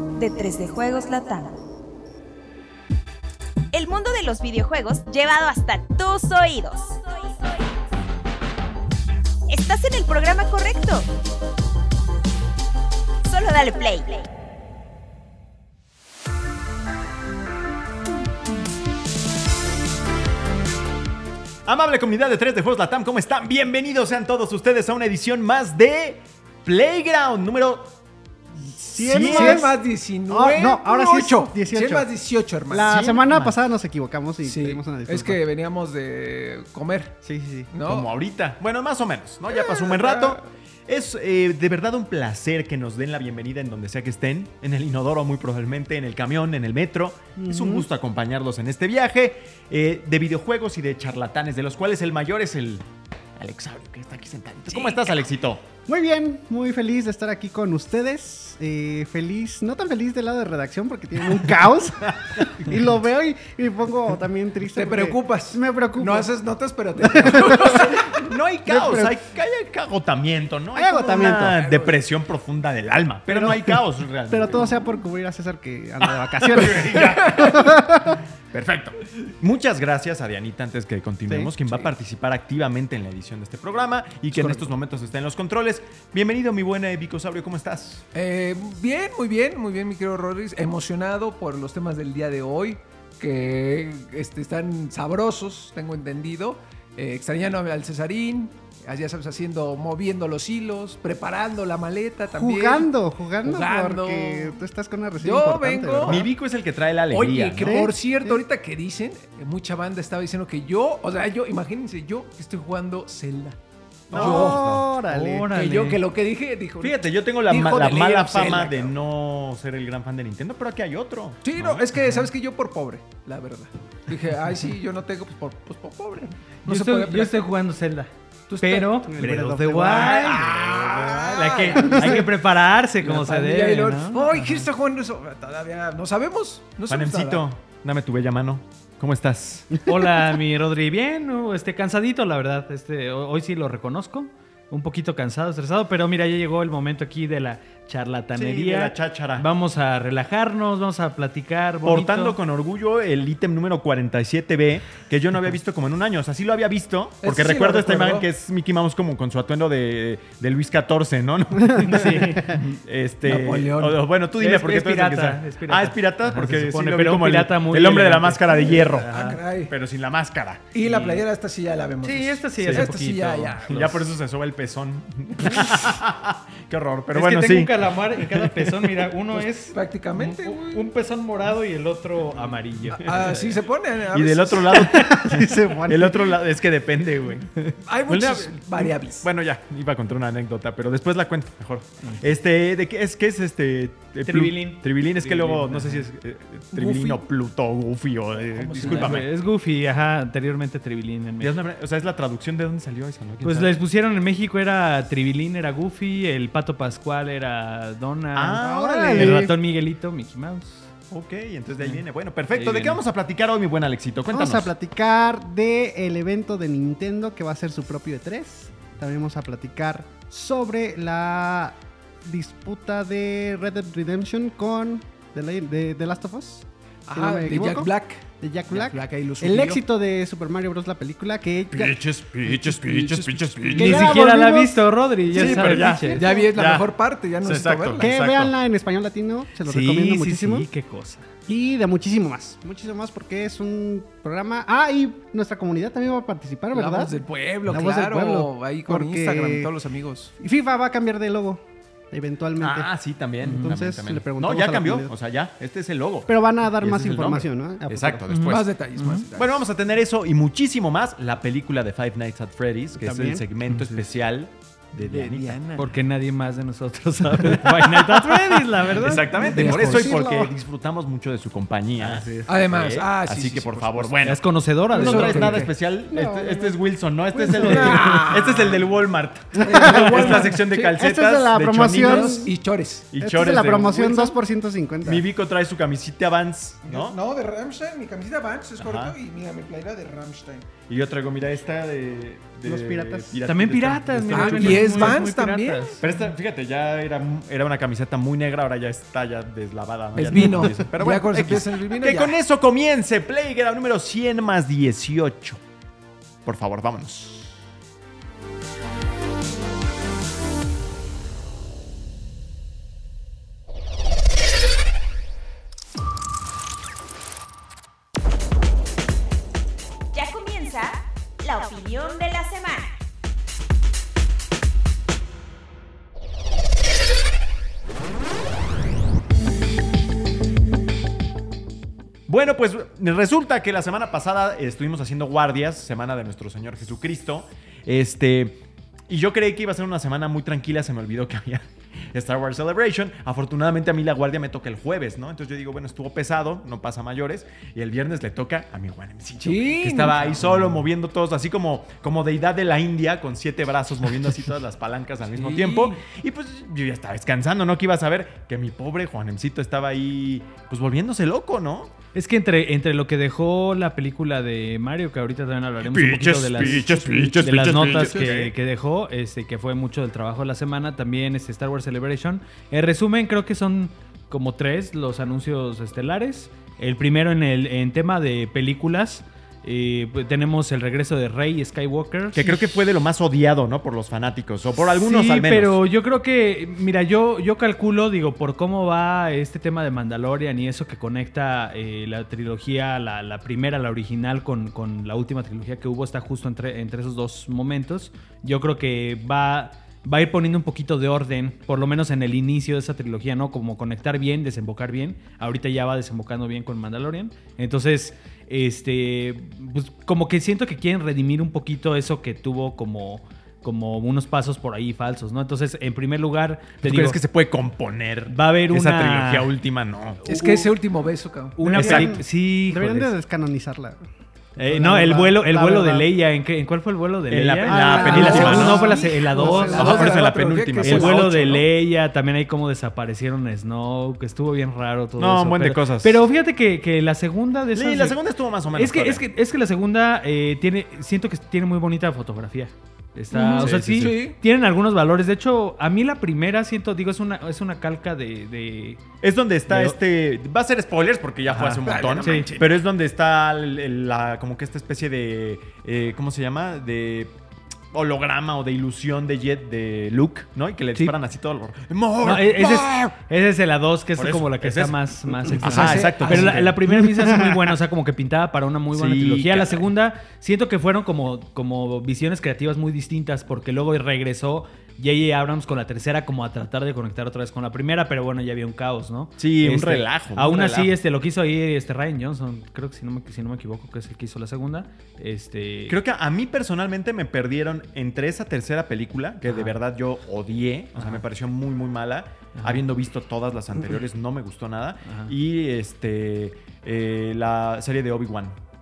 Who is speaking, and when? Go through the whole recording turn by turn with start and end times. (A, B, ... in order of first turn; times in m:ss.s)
0:00.2-0:01.5 A
0:03.7-0:07.8 A
0:09.5-0:11.0 A
0:13.3-0:14.2 A
0:21.6-0:27.9 B
0:28.6-0:29.6 B
0:28.9-0:29.8 C
0:29.0-0:33.2 D
0:30.3-0:32.1 C
0:32.7-0:35.4 C
0:32.9-0:33.2 B
0:34.4-0:37.2 D
0:37.2-0:37.7 C
0:37.7-0:38.1 D
0:37.8-0:52.8 B
0:39.5-0:40.4 D
0:47.4-0:47.9 C
0:53.4-0:55.6 B
0:55.8-1:06.3 C
1:02.3-1:02.6 B
1:04.7-1:08.2 D
1:07.0-1:09.2 C
1:08.1-1:14.7 B
1:10.7-1:11.7 C
1:11.3-1:12.0 D
1:13.3-1:18.2 C
1:16.4-1:17.8 B
1:18.5-1:28.0 B
1:21.3-1:21.8 C
1:24.3-1:24.7 C
1:28.1-1:42.9 D
1:42.3-1:46.3 C
1:43.4-1:44.6 D
1:45.2-1:46.3 D
1:46.0-1:47.8 B
1:47.1-1:53.6 D
1:47.6-1:48.4 C
1:54.1-1:54.8 B
1:54.1-1:54.8 D
1:54.1-1:55.5 C
1:55.0-1:56.0 E
1:55.5-1:58.9 D
1:56.8-2:01.8 B
2:01.4-2:07.4 D
2:06.6-2:14.6 E
2:08.5-2:09.2 D
2:09.1-2:10.4 C
2:09.8-2:11.3 B
2:09.8-2:12.3 D
2:11.8-2:12.2 C
2:13.0-2:17.4 D
2:16.9-2:19.9 B
2:19.8-2:32.4 E
2:28.4-2:29.5 B
2:31.8-2:50.7 B
2:37.2-2:38.3 D
2:41.6-2:42.6 C
2:41.7-2:42.6 E
2:43.2-2:44.0 D
2:44.4-2:49.4 E
2:48.5-2:49.7 D
2:50.7-2:53.8 D
2:50.8-2:51.2 E
2:52.0-2:54.0 E
2:52.6-2:52.9 B
2:53.7-2:59.1 B
2:57.1-3:03.6 E
2:59.4-3:00.9 D
3:02.9-3:04.9 D
3:04.1-3:07.5 B
3:04.7-3:05.4 E
3:05.0-3:06.4 C
3:07.8-3:09.3 D
3:08.1-3:19.3 B
3:14.2-3:16.1 E
3:16.7-3:17.2 D
3:18.4-3:19.3 D
3:18.8-3:21.5 E
3:21.4-3:23.8 B
3:23.4-3:30.9 E
3:28.3-3:29.5 B
3:28.6-3:29.5 C
3:31.1-3:34.7 B
3:32.5-3:33.0 E
3:34.3-3:52.0 C
3:47.1-3:49.8 D
3:51.7-3:54.2 B
3:52.5-3:53.7 D
3:53.6-3:56.5 C
3:53.8-3:56.2 E
3:55.3-3:56.9 B
3:55.8-3:58.1 D
3:57.4-3:58.5 B
3:58.0-4:00.7 C
3:59.6-4:01.3 E
4:01.5-4:07.1 C
4:06.7-4:10.3 D
4:07.6-4:09.7 C
4:10.4-4:12.9 C
4:12.6-4:18.6 B
4:13.4-4:13.7 E
4:13.4-4:15.1 C
4:16.3-4:18.3 C
4:18.3-4:19.2 E
4:18.5-4:19.7 D
4:19.3-4:25.6 B
4:23.0-4:23.4 C
4:23.7-4:24.0 E
4:25.0-4:25.9 D
4:25.8-4:30.0 E
4:27.4-4:42.4 B
4:29.4-4:30.6 C
4:29.4-4:30.1 D
4:32.0-4:32.5 E
4:32.4-4:34.2 D
4:34.2-4:35.6 E
4:34.9-4:35.7 D
4:36.1-4:38.2 C
4:37.4-4:39.0 D
4:39.6-4:42.5 C
4:39.6-4:41.1 D
4:41.9-4:43.1 D
4:43.1-4:44.4 B
4:43.2-4:45.2 C
4:45.0-4:47.2 B
4:46.8-4:50.7 D
4:48.8-4:49.1 B
4:50.8-4:55.2 B
4:52.6-4:53.4 C
4:53.4-4:56.0 E
4:54.3-4:56.0 D
4:56.0-5:05.6 B
5:00.1-5:02.4 D
5:06.4-5:07.6 B
5:20.1-5:23.0 A
5:32.3-6:01.9 B
5:49.4-5:50.4 D
5:50.4-5:50.8 E
5:55.4-5:55.9 E
6:02.1-6:22.7 E
6:05.8-6:08.5 B
6:22.3-6:25.8 B
6:24.8-6:57.2 E
6:56.8-7:00.2 B
6:58.3-6:59.5 E
7:00.2-7:00.7 E
7:00.2-7:01.6 D
7:01.6-7:03.1 E
7:01.7-7:02.2 B
7:01.7-7:04.0 C
7:04.6-7:10.1 E
7:04.6-7:06.1 C
7:07.3-7:08.9 B
7:07.6-7:10.2 C
7:08.0-7:11.6 D
7:09.6-7:11.5 B
7:10.8-7:18.2 E
7:15.2-7:16.2 B
7:17.7-7:19.2 B
7:18.7-7:29.0 E
7:23.3-7:24.4 D
7:23.6-7:24.2 B
7:29.2-7:37.3 B
7:29.7-7:30.0 E
7:31.5-7:32.5 E
7:31.8-7:32.8 D
7:37.9-7:43.2 B
7:42.2-8:06.0 E
7:44.2-7:46.9 B
7:45.6-7:46.6 D
7:48.9-7:49.8 B
7:59.4-8:00.9 B
8:05.9-8:18.6 B
8:09.4-8:09.8 E
8:10.9-8:11.2 E
8:12.5-8:12.8 E
8:15.0-8:15.3 E